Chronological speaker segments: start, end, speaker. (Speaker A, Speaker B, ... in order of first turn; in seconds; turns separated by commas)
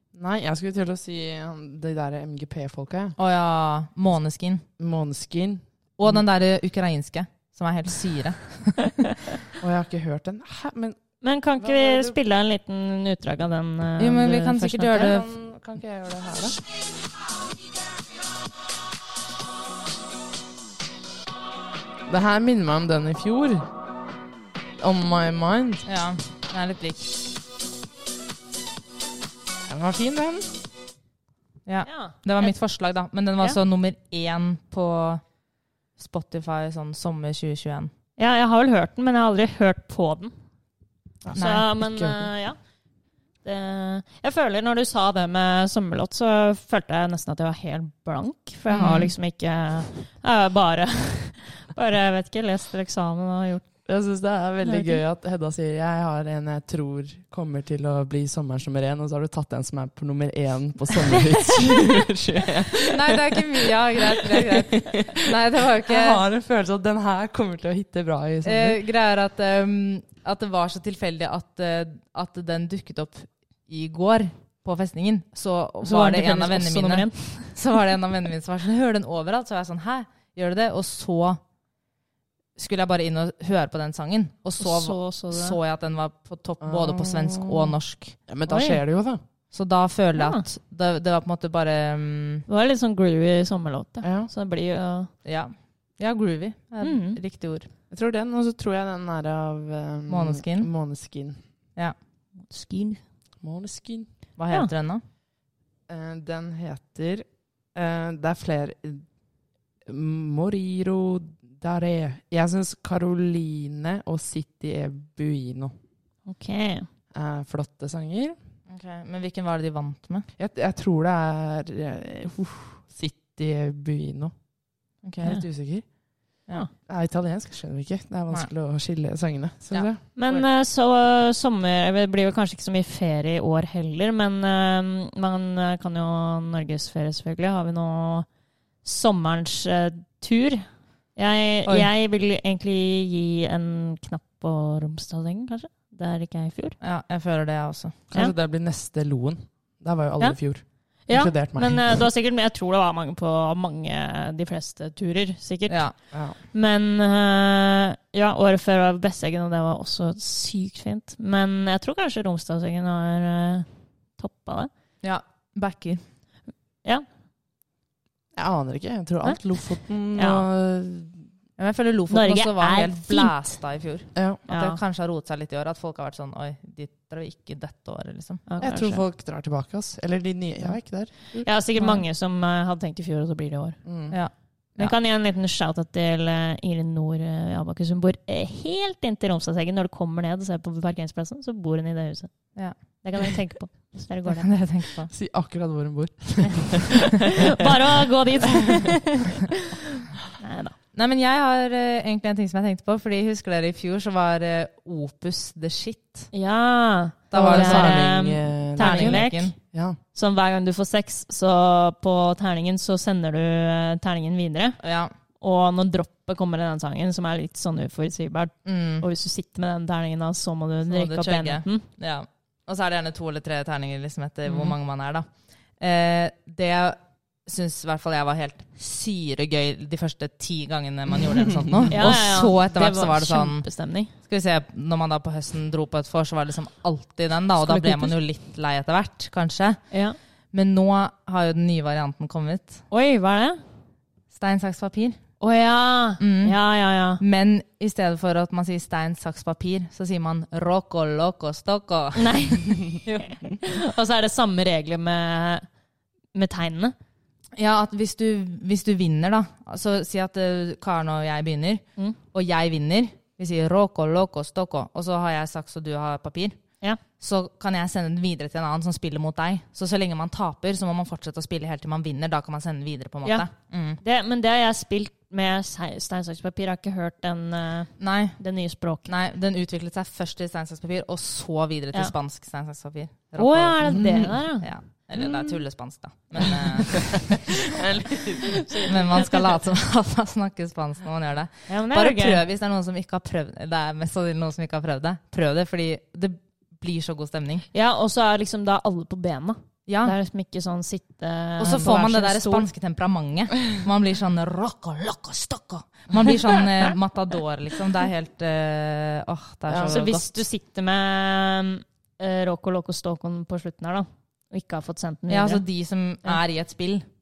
Speaker A: 0.1-3.2, Speaker B: 3.2-4.6, Speaker A: 4.8-6.2, Speaker B: 6.0-9.0, Speaker A: 9.6-11.0, Speaker C: 11.2-15.2, Speaker A: 11.6-12.2, Speaker B: 14.0-15.3, Speaker A: 15.0-16.6, Speaker A: 22.1-23.7, Speaker A: 24.8-25.8, Speaker B: 25.8-27.1, Speaker A: 29.7-30.5, Speaker B: 31.6-35.2, Speaker C: 31.8-32.5, Speaker B: 36.0-37.9, Speaker C: 38.2-40.3, Speaker A: 41.2-42.3, Speaker B: 41.3-41.6, Speaker C: 41.3-42.6, Speaker C: 43.4-53.7, Speaker B: 48.7-49.1, Speaker A: 53.9-63.4, Speaker C: 54.6-55.0, Speaker B: 62.9-66.2, Speaker A: 64.2-65.3, Speaker A: 65.9-68.8, Speaker B: 68.4-81.4, Speaker C: 75.8-77.6, Speaker B: 82.5-88.2, Speaker C: 84.6-85.6, Speaker A: 86.6-89.2, Speaker C: 88.5-88.8, Speaker B: 89.5-92.5, Speaker C: 90.1-90.4, Speaker C: 92.5-95.1, Speaker A: 94.0-94.3, Speaker B: 95.2-97.7, Speaker C: 96.8-97.2, Speaker A: 97.9-101.4, Speaker B: 100.1-100.7, Speaker C: 102.4-103.0, Speaker A: 103.4-104.1, Speaker B: 104.4-105.0, Speaker A: 105.9-109.1, Speaker A: 109.8-115.7, Speaker C: 116.2-116.9, Speaker A: 117.1-118.4, Speaker B: 118.7-120.3, Speaker A: 120.3-124.4, Speaker B: 125.0-125.4, Speaker A: 125.2-130.0, Speaker B: 129.7-130.5, Speaker C: 130.1-138.3, Speaker C: 138.8-146.8, Speaker B: 146.8-147.9, Speaker A: 148.1-152.0, Speaker C: 150.2-164.7, Speaker B: 155.7-155.9, Speaker A: 156.1-156.4, Speaker B: 165.0-166.0, Speaker A: 168.3-171.3, Speaker C: 169.2-170.4, Speaker B: 171.6-178.4, Speaker C: 172.1-173.6, Speaker A: 174.1-174.4, Speaker C: 174.5-174.8, Speaker C: 178.4-179.0, Speaker A: 178.6-181.5, Speaker C: 181.3-183.8, Speaker B: 181.8-182.0, Speaker A: 183.8-184.2, Speaker B: 184.1-184.9, Speaker C: 184.7-194.6, Speaker B: 192.5-192.8, Speaker B: 194.3-195.1, Speaker A: 195.1-197.3, Speaker C: 197.5-200.8, Speaker B: 200.9-206.3, Speaker C: 206.3-214.8, Speaker B: 207.3-209.5, Speaker A: 207.3-210.0, Speaker B: 214.8-215.1, Speaker C: 215.4-221.8, Speaker B: 218.6-219.1, Speaker B: 220.8-240.0, Speaker C: 224.4-224.8, Speaker C: 231.9-234.1, Speaker A: 237.6-238.2, Speaker C: 239.9-240.2, Speaker B: 240.5-242.9, Speaker C: 242.9-243.6, Speaker B: 244.3-245.2, Speaker C: 245.4-247.2, Speaker B: 246.2-246.6, Speaker B: 247.2-253.5, Speaker C: 252.1-255.7, Speaker C: 256.3-256.9, Speaker B: 257.6-266.6, Speaker B: 267.2-274.0, Speaker C: 273.2-279.1, Speaker B: 278.0-287.4, Speaker C: 283.4-284.7, Speaker A: 283.9-284.4, Speaker A: 285.1-285.6, Speaker A: 287.1-289.2, Speaker C: 288.7-289.4, Speaker B: 288.9-297.7, Speaker C: 291.7-292.4, Speaker C: 297.7-302.7, Speaker B: 299.9-300.1, Speaker B: 301.6-310.3, Speaker A: 309.7-310.1, Speaker C: 309.9-315.6, Speaker B: 315.3-317.1